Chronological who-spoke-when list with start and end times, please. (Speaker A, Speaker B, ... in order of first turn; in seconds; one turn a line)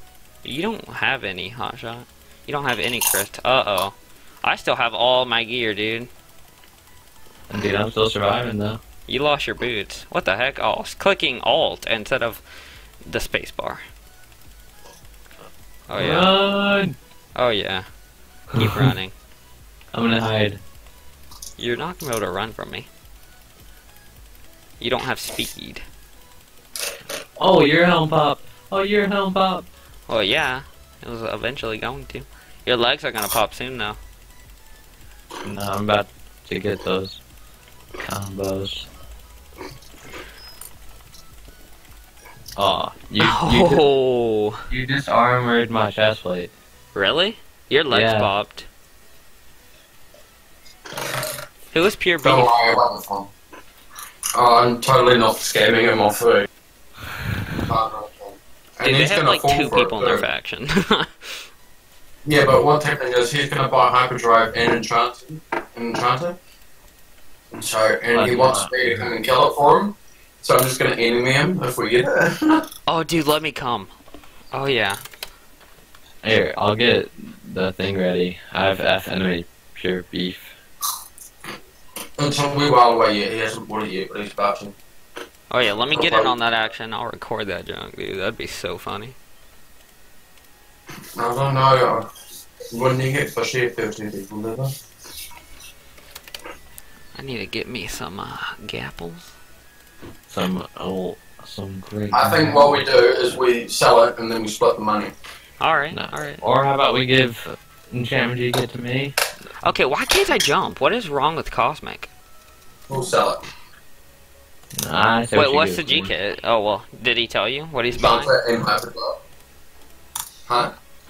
Speaker A: 0.4-6.1
Speaker B: 7.5-8.8
Speaker A: 9.1-12.4
Speaker A: 13.0-13.8
Speaker A: 15.9-16.3
Speaker B: 15.9-16.9
Speaker A: 17.3-17.9
Speaker B: 18.5-18.9
Speaker A: 18.6-19.1
Speaker B: 19.9-20.6
Speaker A: 21.6-22.9
Speaker A: 24.8-25.8
Speaker B: 27.4-29.6
Speaker A: 30.1-34.0
Speaker B: 35.4-37.2
Speaker B: 38.0-38.9
Speaker B: 42.5-43.8
Speaker A: 43.2-44.6
Speaker B: 44.7-46.5
Speaker A: 46.9-48.7
Speaker B: 47.9-48.3
Speaker A: 51.7-52.7
Speaker C: 52.2-53.3
Speaker C: 54.3-56.5
Speaker C: 57.6-60.2
Speaker A: 58.8-61.4
Speaker C: 62.2-66.4
Speaker C: 67.5-72.6
Speaker B: 68.1-69.1
Speaker A: 72.9-73.9
Speaker A: 74.5-75.0
Speaker B: 76.2-80.5
Speaker C: 82.2-84.8
Speaker A: 85.5-89.2
Speaker C: 85.8-86.3
Speaker C: 91.2-92.1
Speaker C: 92.7-94.7
Speaker A: 97.1-99.3
Speaker B: 100.3-103.4
Speaker C: 102.1-105.1
Speaker A: 105.6-106.4
Speaker B: 105.9-109.2
Speaker A: 109.6-112.1
Speaker C: 112.9-113.4
Speaker B: 114.7-116.1
Speaker A: 115.3-118.3
Speaker C: 117.9-119.2
Speaker C: 120.5-120.7